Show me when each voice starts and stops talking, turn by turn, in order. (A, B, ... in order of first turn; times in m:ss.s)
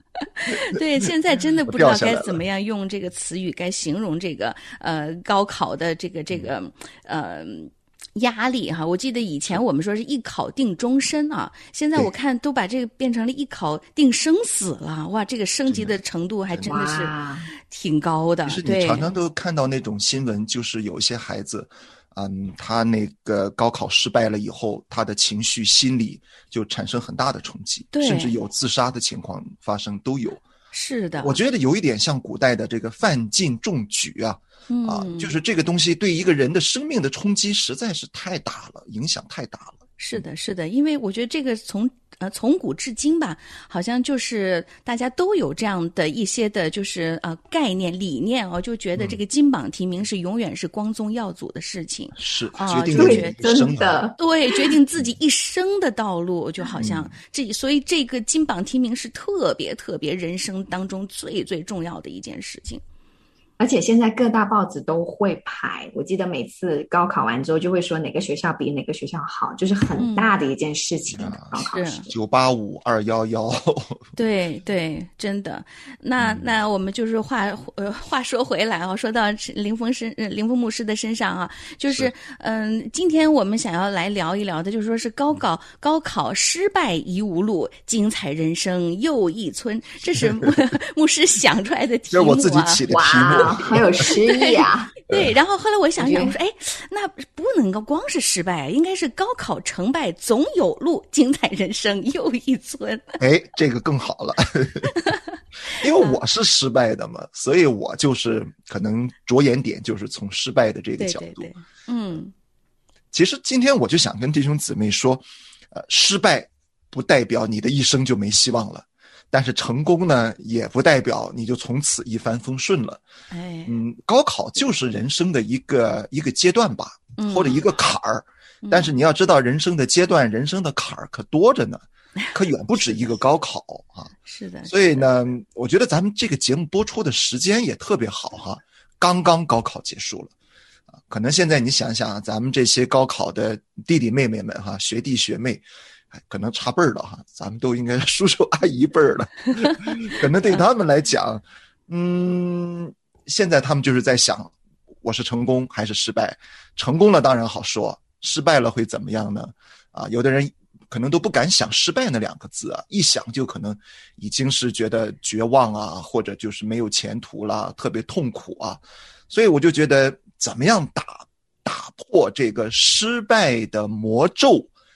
0:00.4-0:17.1 A
0:01.6-0:02.4 B
0:15.7-0:16.0 B
0:16.6-0:17.5 C
0:17.7-0:19.1 A
0:18.4-0:30.4 B
0:27.9-0:28.3 A
0:30.7-0:31.4 A
0:31.2-0:40.2 B
0:34.7-0:35.3 A
0:40.0-0:53.4 A
0:52.1-0:54.1 B
0:52.9-0:54.7 C
0:54.2-1:02.8 A
0:56.8-0:57.1 B
1:03.6-1:12.1 C
1:10.0-1:10.3 A
1:11.1-1:11.5 B
1:11.6-1:12.0 A
1:12.1-1:14.1 B
1:14.2-1:43.2 A
1:16.2-1:16.5 B
1:21.9-1:22.1 B
1:32.1-1:34.0 B
1:32.9-1:34.9 C
1:36.0-1:36.3 C
1:43.2-1:44.9 B
1:45.7-1:51.5 B
1:51.0-1:52.3 A
1:53.1-2:03.0 B
2:03.3-2:03.7 A
2:03.6-2:14.1 B
2:07.2-2:07.6 A
2:08.6-2:08.9 A
2:12.8-2:13.0 A
2:14.2-2:15.1 A
2:14.7-2:20.3 B
2:21.1-2:25.6 B
2:26.2-2:54.7 B